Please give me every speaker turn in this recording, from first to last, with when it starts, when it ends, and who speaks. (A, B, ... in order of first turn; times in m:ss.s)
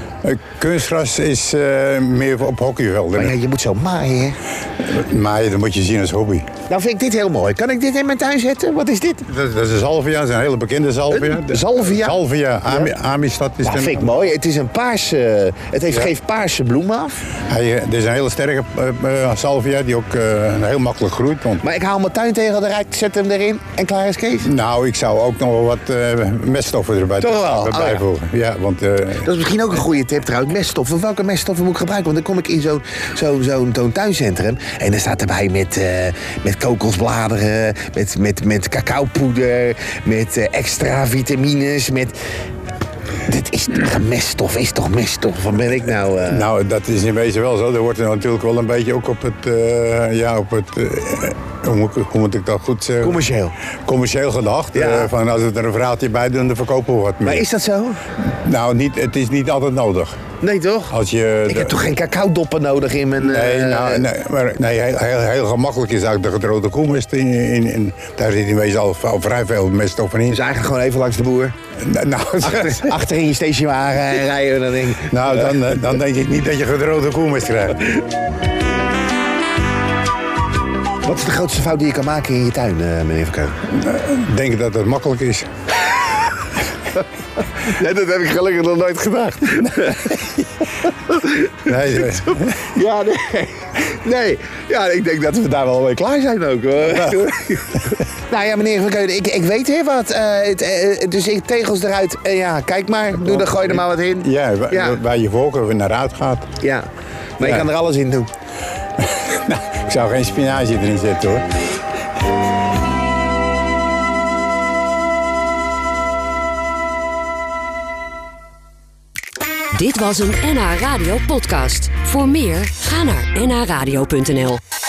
0:00.2-0:03.4 A
0:03.1-0:04.4 B
0:04.8-0:06.5 A
0:06.7-0:09.3 B
0:09.3-0:14.2 A
0:11.1-0:12.9 B
0:13.6-0:17.2 B
0:17.5-0:21.6 A
0:21.6-0:24.5 B
0:24.4-0:29.3 A
0:27.2-0:28.0 B
0:29.2-0:42.1 B
0:43.2-0:46.5 B
0:46.2-0:53.2 A
0:53.0-0:53.5 B
0:53.8-0:57.5 A
0:54.7-0:55.1 B
0:57.2-0:58.0 B
0:58.4-1:00.2 A
1:00.4-1:00.9 B
1:00.9-1:01.8 A
1:01.5-1:04.1 B
1:03.2-1:10.4 A
1:10.3-1:11.5 B
1:11.8-1:12.9 A
1:12.4-1:15.8 B
1:15.1-1:17.8 A
1:21.0-1:23.6 B
1:23.7-1:25.5 A
1:27.6-1:45.0 B
1:31.6-1:32.6 A
1:43.2-1:46.5 A
1:46.6-1:46.9 B
1:47.4-1:48.3 B
1:47.4-1:47.7 A
1:49.0-1:51.4 A
1:59.7-2:04.6 C